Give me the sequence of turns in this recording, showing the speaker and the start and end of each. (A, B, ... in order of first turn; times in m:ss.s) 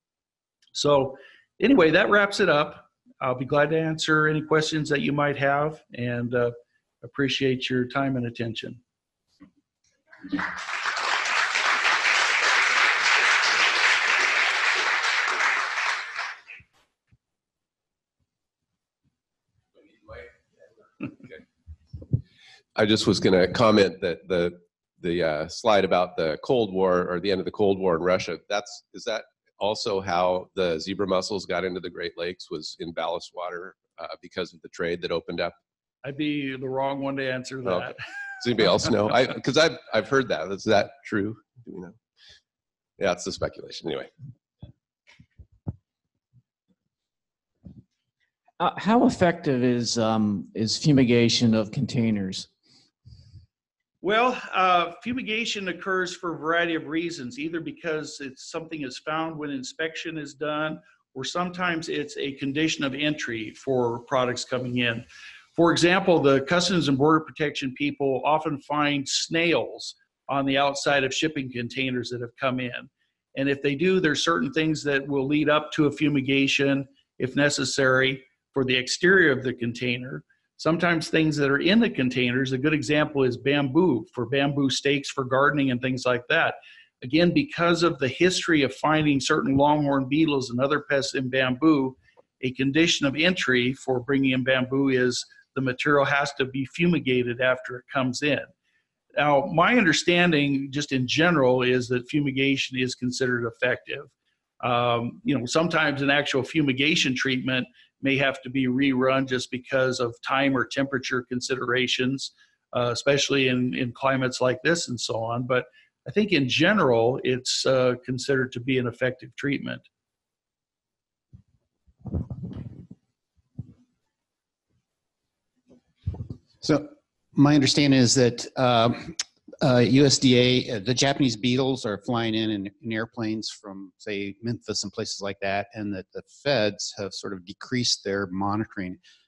0:00.7-0:08.8 A
0:22.8-0:35.6 B
0:36.0-0:38.0 A
0:37.7-0:42.0 B
0:43.0-0:44.1 B
0:48.6-0:52.5 C
0:54.0-1:38.5 A
1:39.2-1:59.8 A
2:06.6-2:19.0 D